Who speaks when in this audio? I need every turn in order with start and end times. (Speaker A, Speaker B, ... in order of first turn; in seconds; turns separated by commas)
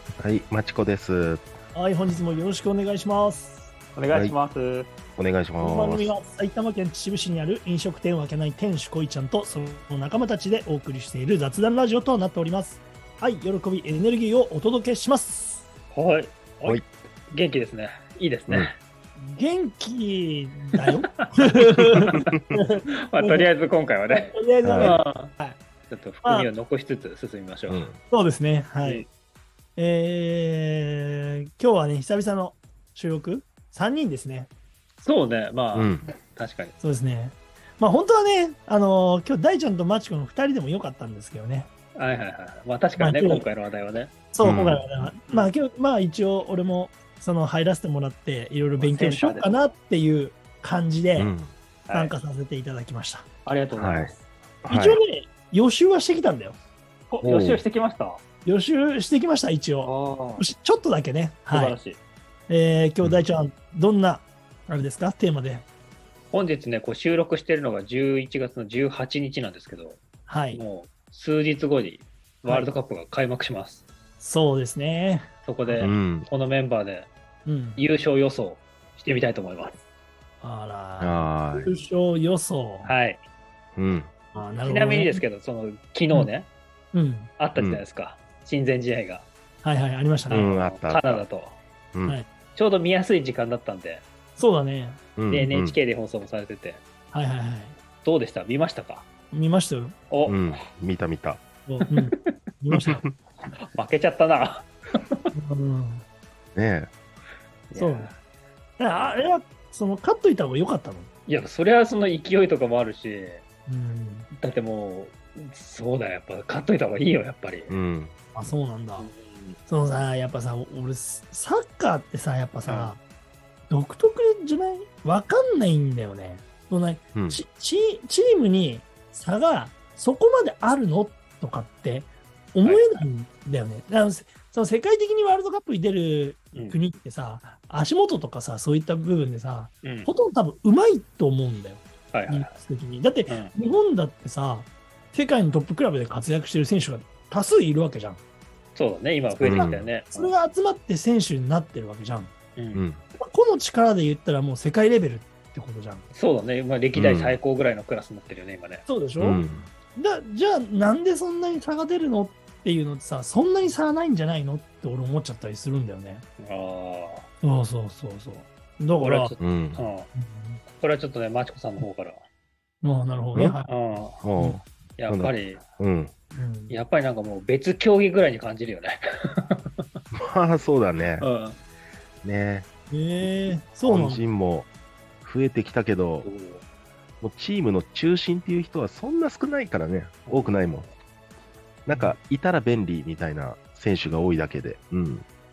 Speaker A: 0.2-1.4, Speaker B: 1.7-3.7, Speaker C: 4.0-4.9, Speaker A: 5.2-6.1, Speaker B: 5.6-15.6, Speaker C: 15.9-18.8, Speaker B: 19.2-23.5, Speaker C: 20.8-22.4, Speaker C: 22.9-25.4, Speaker B: 24.1-25.6, Speaker A: 24.6-25.0, Speaker C: 25.9-27.9, Speaker B: 26.2-26.5, Speaker A: 27.7-28.0, Speaker B: 28.1-29.1, Speaker B: 29.8-34.5, Speaker C: 35.0-36.8, Speaker A: 35.7-36.1, Speaker B: 36.8-41.7, Speaker C: 42.0-44.1, Speaker B: 43.0-43.5, Speaker B: 44.3-51.3, Speaker A: 44.4-45.1, Speaker C: 48.8-49.5, Speaker A: 51.2-51.5, Speaker C: 51.9-52.1, Speaker B: 51.9-53.3, Speaker C: 53.5-54.2, Speaker A: 53.8-55.0, Speaker B: 54.7-56.6, Speaker C: 57.1-58.2, Speaker A: 57.2-57.6, Speaker B: 58.5-61.8, Speaker C: 59.8-60.5, Speaker C: 61.5-62.0, Speaker B: 62.5-65.7, Speaker C: 66.3-70.0, Speaker B: 70.3-70.6, Speaker C: 70.5-73.8, Speaker B: 74.2-75.9, Speaker C: 75.5-77.1, Speaker A: 75.8-76.3, Speaker B: 77.5-77.8, Speaker C: 77.8-79.8, Speaker B: 80.4-82.9, Speaker A: 81.0-81.7, Speaker C: 82.8-83.2, Speaker A: 83.8-84.1, Speaker B: 84.3-85.2, Speaker C: 84.6-86.5, Speaker B: 86.9-87.3, Speaker C: 87.4-89.3, Speaker B: 89.6-90.5, Speaker A: 90.3-91.2, Speaker C: 90.3-91.6, Speaker C: 92.5-94.0, Speaker B: 94.4-95.0, Speaker A: 95.2-95.8, Speaker C: 95.3-96.8, Speaker B: 97.1-97.8, Speaker C: 98.0-99.1, Speaker B: 99.3-100.0, Speaker C: 100.1-100.5, Speaker A: 100.3-101.4, Speaker B: 101.7-103.0, Speaker C: 101.9-102.3, Speaker A: 102.8-103.1, Speaker C: 103.5-105.2, Speaker B: 105.3-106.0, Speaker A: 106.5-106.9, Speaker C: 107.7-108.2, Speaker B: 107.8-108.1, Speaker B: 108.8-111.1, Speaker C: 111.3-113.4, Speaker B: 113.7-114.3, Speaker C: 114.3-117.8, Speaker A: 117.7-118.2, Speaker B: 118.3-119.1, Speaker C: 119.0-119.6, Speaker B: 119.7-123.0, Speaker C: 122.7-123.0, Speaker B: 123.7-148.2, Speaker A: 127.2-127.4, Speaker C: 132.6-133.1, Speaker C: 139.8-140.1, Speaker C: 142.1-142.5, Speaker C: 143.3-143.5, Speaker C: 148.8-150.3, Speaker A: 149.4-149.9, Speaker B: 149.4-152.3, Speaker C: 152.6-152.8, Speaker A: 152.8-153.0, Speaker B: 153.2-156.1, Speaker C: 156.1-158.8, Speaker A: 156.9-157.4, Speaker B: 158.9-159.4, Speaker A: 159.2-159.7, Speaker B: 159.9-166.2, Speaker C: 166.4-167.3, Speaker B: 167.4-169.3, Speaker C: 169.0-170.1, Speaker A: 169.4-169.9, Speaker B: 170.2-170.6, Speaker C: 170.7-172.2, Speaker B: 172.8-173.7, Speaker C: 173.7-174.2, Speaker A: 174.2-176.1, Speaker C: 175.0-175.6, Speaker B: 176.3-176.8, Speaker C: 176.7-179.8, Speaker A: 180.1-181.2, Speaker C: 181.2-181.6, Speaker A: 182.2-182.7, Speaker B: 182.9-184.2, Speaker A: 183.8-184.7, Speaker A: 185.2-186.3, Speaker C: 186.2-186.6, Speaker A: 187.2-190.9, Speaker C: 190.3-190.9, Speaker A: 191.9-195.3